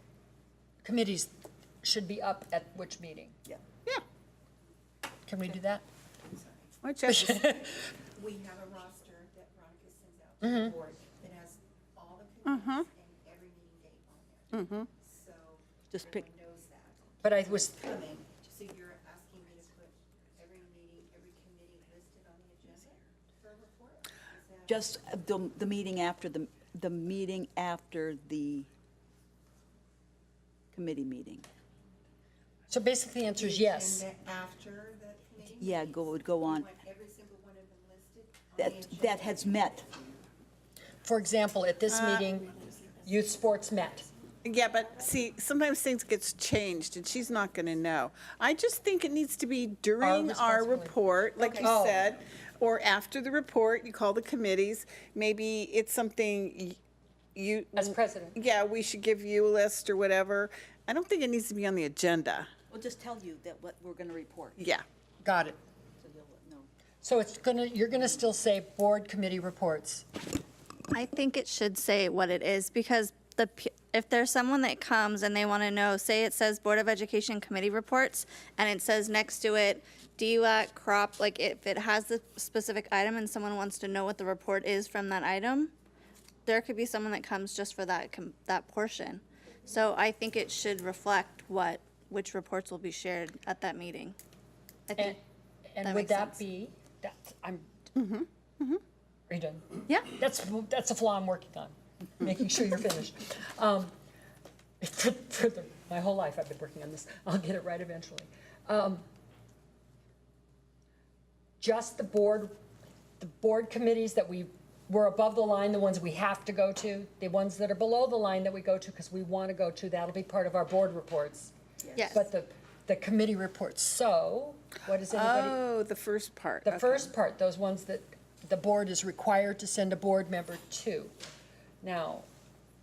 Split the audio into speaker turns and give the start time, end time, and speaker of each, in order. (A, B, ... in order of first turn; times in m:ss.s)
0:00.8-0:01.3 A
0:01.8-0:03.4 A
0:05.3-0:05.8 A
0:06.3-0:06.7 B
0:06.8-0:07.5 C
0:07.0-0:07.7 A
0:08.2-0:24.7 B
0:10.4-0:10.8 A
0:12.4-0:12.9 C
0:14.5-0:14.9 C
0:15.9-0:16.3 D
0:17.2-0:17.9 A
0:24.6-0:28.7 D
0:30.7-0:31.5 D
0:32.7-0:34.0 A
0:33.4-0:39.6 B
0:35.6-0:36.8 D
0:38.5-0:39.9 D
0:41.0-0:44.1 A
0:41.9-0:42.3 C
0:44.4-0:56.8 C
0:50.0-0:51.0 A
0:51.6-0:52.0 A
0:57.3-1:02.5 C
0:57.8-0:58.4 A
1:02.7-1:04.7 D
1:04.6-1:04.8 C
1:05.2-1:05.6 A
1:06.0-1:06.7 D
1:07.0-1:10.1 A
1:10.9-1:25.7 E
1:26.4-1:34.2 E
1:34.9-1:35.2 E
1:35.0-1:37.7 A
1:35.8-1:36.4 E
1:38.0-1:38.8 C
1:39.3-1:43.9 A
1:44.8-1:49.0 A
1:51.6-1:52.6 A
1:53.2-2:01.5 A
2:01.9-2:02.3 E
2:02.1-2:05.6 A
2:05.1-2:07.1 C
2:06.6-2:11.2 A
2:11.8-2:12.3 A